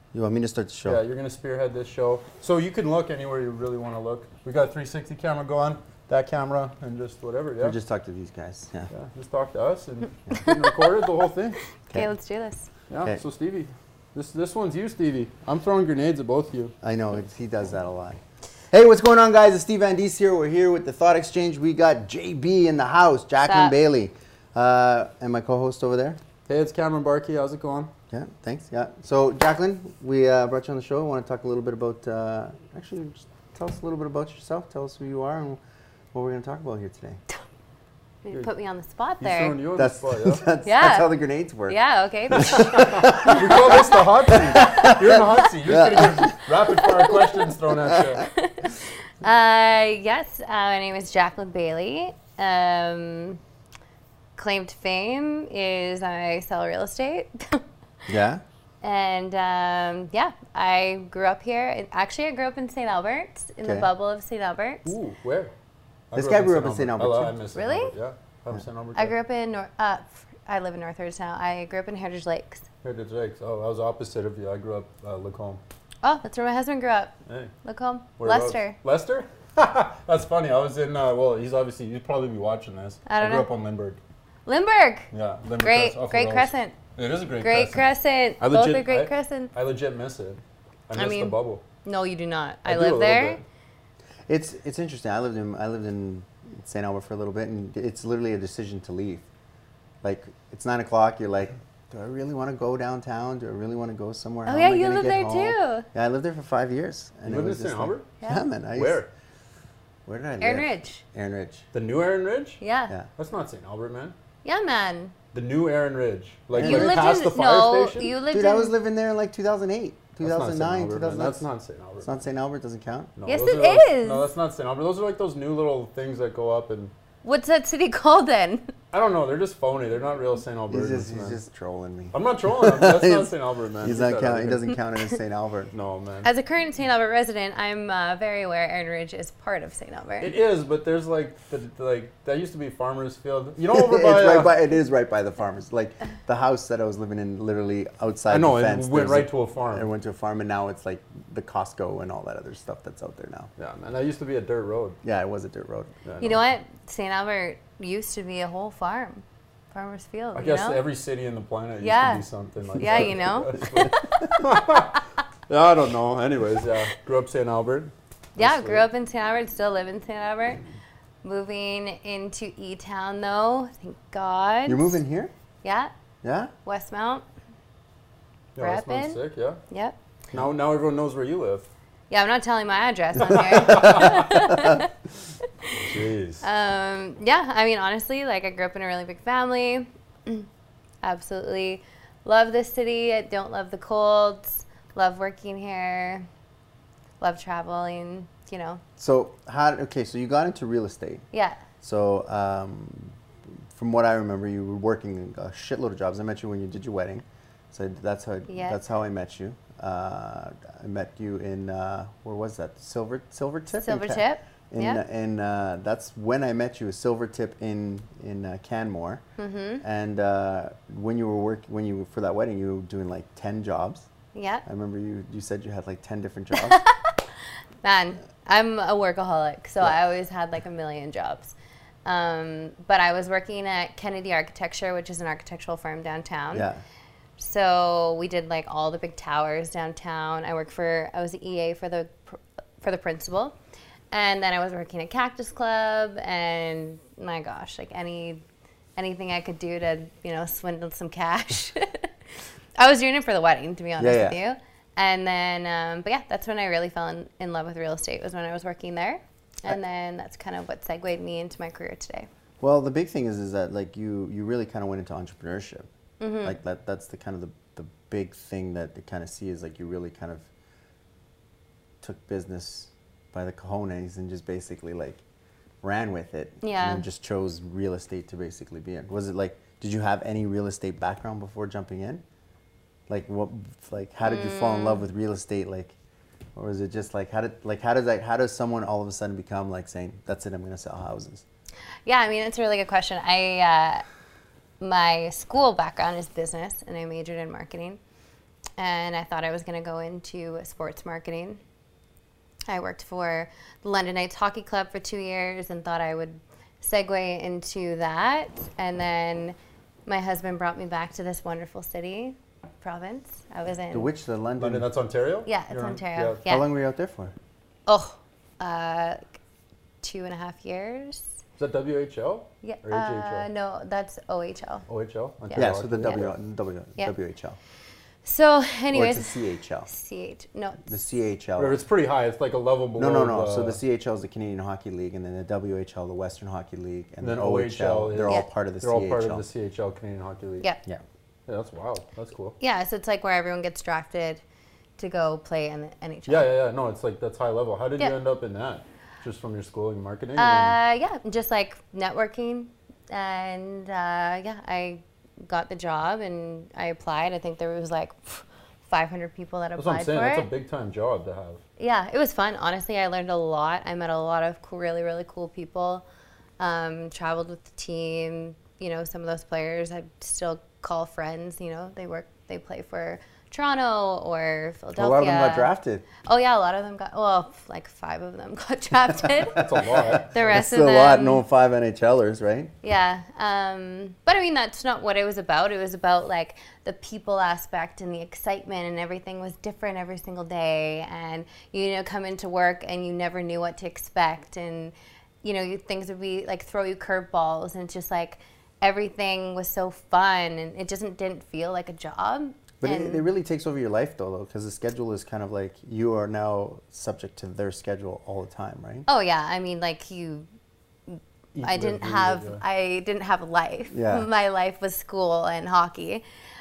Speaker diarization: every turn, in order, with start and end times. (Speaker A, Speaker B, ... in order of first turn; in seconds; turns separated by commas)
Speaker A: 0.1-1.0, Speaker B: 0.8-7.8, Speaker A: 7.6-8.9, Speaker B: 8.9-11.6, Speaker C: 11.9-12.7, Speaker B: 12.9-16.7, Speaker A: 16.8-26.2, Speaker C: 23.4-23.8, Speaker B: 26.5-27.9, Speaker A: 28.1-35.6, Speaker A: 36.1-37.2, Speaker C: 38.2-39.6, Speaker B: 39.2-40.4, Speaker A: 39.7-41.8, Speaker C: 40.6-41.1, Speaker C: 41.7-43.4, Speaker A: 42.3-47.2, Speaker B: 42.5-48.3, Speaker A: 47.9-48.1, Speaker C: 48.2-53.4, Speaker C: 54.4-57.6, Speaker A: 58.1-58.4, Speaker C: 58.8-64.9, Speaker A: 63.6-63.9, Speaker B: 64.8-65.5, Speaker B: 66.1-69.1, Speaker A: 66.1-67.3, Speaker C: 67.5-67.9, Speaker C: 68.9-72.7, Speaker B: 72.8-75.6, Speaker C: 76.0-78.8, Speaker B: 77.3-77.5, Speaker B: 78.2-84.0, Speaker C: 83.0-83.5, Speaker C: 84.5-86.8, Speaker B: 85.1-87.8, Speaker C: 87.4-89.5, Speaker B: 88.4-91.6, Speaker C: 90.9-93.4, Speaker B: 92.6-93.4, Speaker A: 94.3-99.3, Speaker A: 100.0-109.0, Speaker C: 104.5-105.9, Speaker B: 107.3-108.1, Speaker B: 108.7-109.1, Speaker A: 110.0-111.6, Speaker C: 110.4-111.0, Speaker B: 111.7-112.6, Speaker C: 112.6-112.9, Speaker B: 113.2-114.1, Speaker C: 114.4-115.1, Speaker B: 115.3-118.1, Speaker A: 116.5-117.2, Speaker C: 116.6-118.7, Speaker A: 118.3-121.4, Speaker B: 120.2-122.1, Speaker A: 122.0-123.1, Speaker B: 123.2-126.9, Speaker C: 123.3-124.2, Speaker C: 127.2-128.7, Speaker B: 128.9-131.4, Speaker A: 130.7-135.7, Speaker B: 132.1-134.7, Speaker B: 135.7-136.3, Speaker C: 136.2-140.3, Speaker B: 140.2-144.5, Speaker A: 143.7-153.5, Speaker B: 148.3-149.9, Speaker B: 153.6-155.0, Speaker A: 155.0-155.9, Speaker B: 156.0-156.4, Speaker C: 156.2-160.8, Speaker B: 160.3-168.8, Speaker C: 161.8-165.0, Speaker C: 168.4-170.6, Speaker C: 171.2-175.0, Speaker A: 174.7-175.3, Speaker C: 175.6-175.9, Speaker A: 176.2-176.5, Speaker C: 176.6-177.2, Speaker B: 178.6-179.6, Speaker C: 178.6-179.9, Speaker B: 180.3-181.7, Speaker C: 182.1-184.9, Speaker B: 183.5-184.4, Speaker C: 185.6-185.9, Speaker B: 185.8-186.4, Speaker C: 186.4-190.5, Speaker C: 191.0-196.3, Speaker C: 197.2-198.8, Speaker A: 199.0-201.2, Speaker C: 201.3-201.6, Speaker A: 201.8-203.2, Speaker A: 203.7-219.2, Speaker C: 208.5-208.8, Speaker C: 213.7-215.0, Speaker C: 219.4-219.8, Speaker A: 219.8-224.1, Speaker C: 224.3-224.6, Speaker A: 224.6-226.8, Speaker C: 226.5-227.2, Speaker C: 227.8-236.7, Speaker A: 236.5-236.8, Speaker C: 237.4-243.5, Speaker C: 244.1-248.4, Speaker C: 249.0-252.1, Speaker C: 252.8-262.3, Speaker A: 254.0-254.4, Speaker A: 262.6-265.9, Speaker C: 266.2-266.6, Speaker A: 266.4-270.5, Speaker A: 272.0-275.2, Speaker A: 275.8-282.2, Speaker C: 276.6-277.0, Speaker A: 283.1-285.9, Speaker C: 284.2-285.1, Speaker A: 286.6-291.4, Speaker C: 292.1-294.0, Speaker C: 294.8-298.0, Speaker C: 298.8-301.6, Speaker C: 302.7-309.6, Speaker C: 310.1-314.1, Speaker A: 313.9-314.9, Speaker B: 314.6-316.4, Speaker C: 315.4-316.7, Speaker A: 316.4-317.3, Speaker C: 317.9-319.3, Speaker C: 320.0-321.3, Speaker B: 321.6-323.5, Speaker C: 322.6-324.9, Speaker B: 324.9-326.3, Speaker C: 325.5-326.2, Speaker A: 325.5-327.6, Speaker C: 328.2-330.9, Speaker A: 328.9-329.9, Speaker A: 330.9-331.8, Speaker B: 331.6-333.8, Speaker A: 332.9-339.4, Speaker B: 337.2-340.7, Speaker B: 341.5-342.6, Speaker C: 342.6-344.4, Speaker C: 345.0-346.5, Speaker B: 346.3-350.8, Speaker C: 350.4-360.5, Speaker B: 359.8-361.6, Speaker C: 361.8-366.0, Speaker C: 366.6-375.7, Speaker A: 374.9-376.1, Speaker C: 376.2-381.4, Speaker B: 379.5-380.4, Speaker A: 380.4-382.7, Speaker C: 382.8-403.2, Speaker A: 402.8-409.1, Speaker C: 409.1-410.5, Speaker C: 411.1-416.2, Speaker B: 411.5-412.6, Speaker A: 413.9-414.3